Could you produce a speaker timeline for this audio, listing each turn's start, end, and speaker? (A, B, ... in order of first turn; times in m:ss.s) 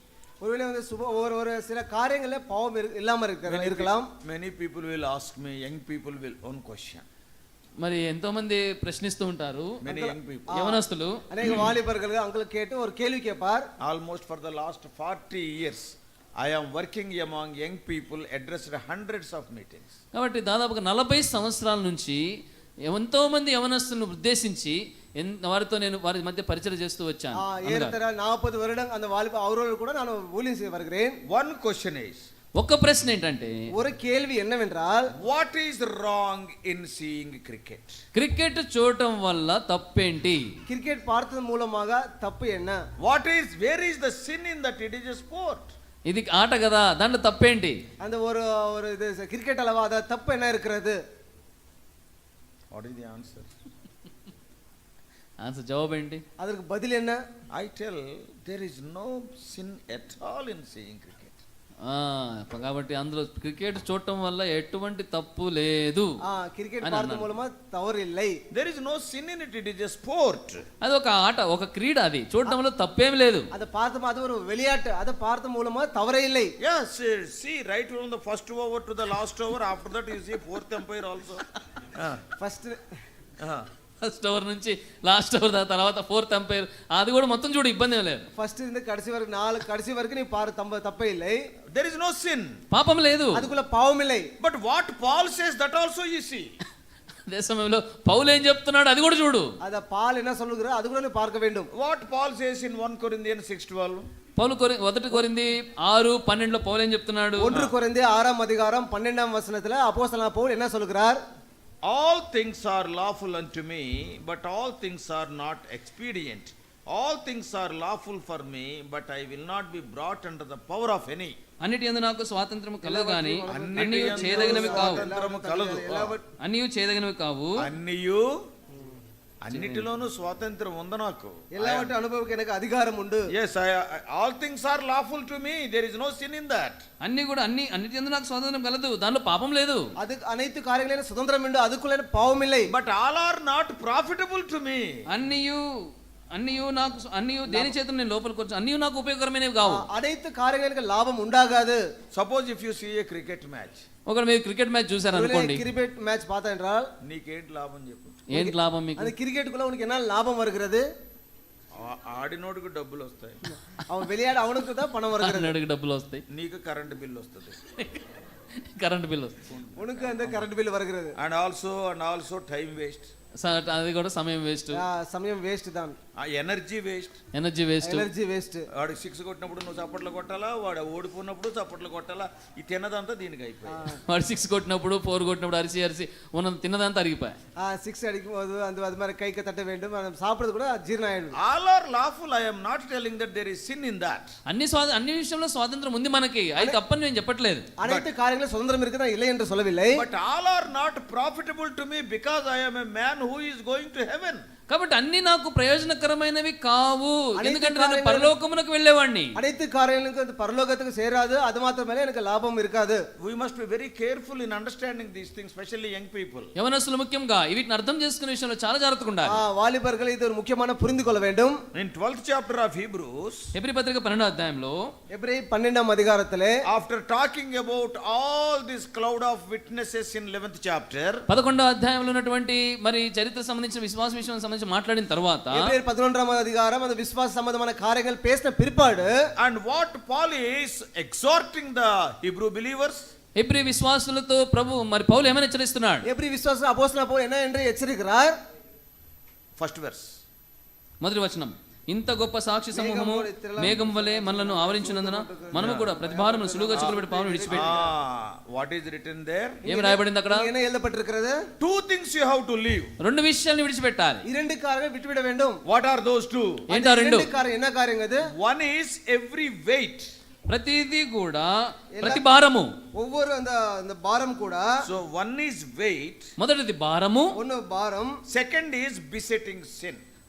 0:00.4-0:04.1 A
0:03.5-0:07.0 B
0:07.8-0:09.8 C
0:09.8-0:10.6 B
0:09.8-0:13.7 A
0:10.5-0:11.2 C
0:13.8-0:19.9 B
0:20.1-0:22.2 C
0:22.9-0:27.9 C
0:27.4-0:31.2 A
0:31.3-0:32.2 B
0:32.6-0:33.6 C
0:33.7-0:35.1 A
0:35.2-0:38.0 B
0:38.2-0:40.5 C
0:40.7-0:42.8 A
0:43.0-0:45.7 B
0:46.1-0:47.8 C
0:48.0-0:51.0 A
0:52.7-0:53.5 B
0:55.4-0:56.2 C
0:56.4-0:57.2 A
0:57.5-1:01.4 B
1:01.8-1:06.2 C
1:06.3-1:08.4 A
1:06.8-1:07.3 C
1:08.5-1:10.6 B
1:10.8-1:13.5 C
1:13.5-1:16.5 A
1:16.6-1:22.2 B
1:22.4-1:22.8 A
1:23.4-1:23.7 B
1:24.0-1:28.3 C
1:28.4-1:31.4 A
1:31.7-1:32.6 B
1:32.7-1:33.5 C
1:33.4-1:34.3 A
1:34.4-1:36.5 B
1:37.3-1:39.5 C
1:39.6-1:41.7 A
1:41.7-1:44.1 B
1:44.4-1:47.6 C
1:47.4-1:51.2 A
1:51.8-2:01.4 B
2:01.6-2:05.0 C
2:02.8-2:06.2 A
2:03.5-2:06.2 B
2:06.4-2:07.7 C
2:07.6-2:08.4 B
2:09.4-2:11.9 B
2:09.5-2:09.9 C
2:11.5-2:13.3 A
2:13.3-2:16.8 B
2:17.0-2:19.9 C
2:20.0-2:22.7 A
2:22.7-2:24.9 B
2:25.1-2:29.9 C
2:27.5-2:27.8 A
2:29.6-2:31.8 A
2:32.1-2:33.8 B
2:34.1-2:35.6 C
2:35.1-2:36.9 A
2:37.0-2:38.2 B
2:38.3-2:39.1 C
2:38.3-2:40.8 A
2:41.8-2:43.4 B
2:43.9-2:45.6 A
2:45.2-2:46.2 C
2:46.3-2:47.6 B
2:47.8-2:48.0 C
2:48.6-2:49.4 C
2:49.5-2:50.4 B
2:49.8-2:51.2 A
2:51.2-2:53.1 B
2:53.4-2:54.8 C
2:54.7-2:56.0 A
2:56.2-2:57.2 B
2:57.3-2:58.1 C
2:57.8-2:58.7 A
2:58.7-3:03.9 B
3:03.7-3:04.0 A
3:04.1-3:07.4 C
3:07.6-3:11.4 A
3:11.4-3:14.3 B
3:14.5-3:17.7 C
3:17.8-3:20.0 A
3:17.8-3:18.1 B
3:19.9-3:24.5 B
3:24.7-3:29.4 C
3:27.4-3:28.3 A
3:29.4-3:33.0 A
3:33.2-3:36.5 B
3:36.6-3:39.4 C
3:39.3-3:41.6 A
3:41.7-3:43.5 B
3:43.6-3:44.8 C
3:45.1-3:46.6 A
3:46.6-3:51.2 B
3:51.3-3:55.7 C
3:55.5-3:59.1 A
3:59.4-4:03.1 B
4:03.4-4:06.1 C
4:06.1-4:08.4 A
4:09.6-4:10.1 B
4:11.0-4:17.8 C
4:12.7-4:17.9 A
4:15.6-4:15.9 B
4:17.5-4:19.6 B
4:19.6-4:21.4 A
4:19.7-4:20.5 C
4:21.6-4:22.9 B
4:23.0-4:24.2 C
4:24.3-4:25.6 A
4:25.7-4:26.7 B
4:26.7-4:27.3 C
4:26.7-4:28.2 A
4:28.3-4:30.1 B
4:30.5-4:32.7 C
4:32.0-4:32.3 A
4:32.9-4:34.7 A
4:34.8-4:36.3 B
4:36.4-4:37.4 C
4:37.4-4:38.1 A
4:38.3-4:40.0 B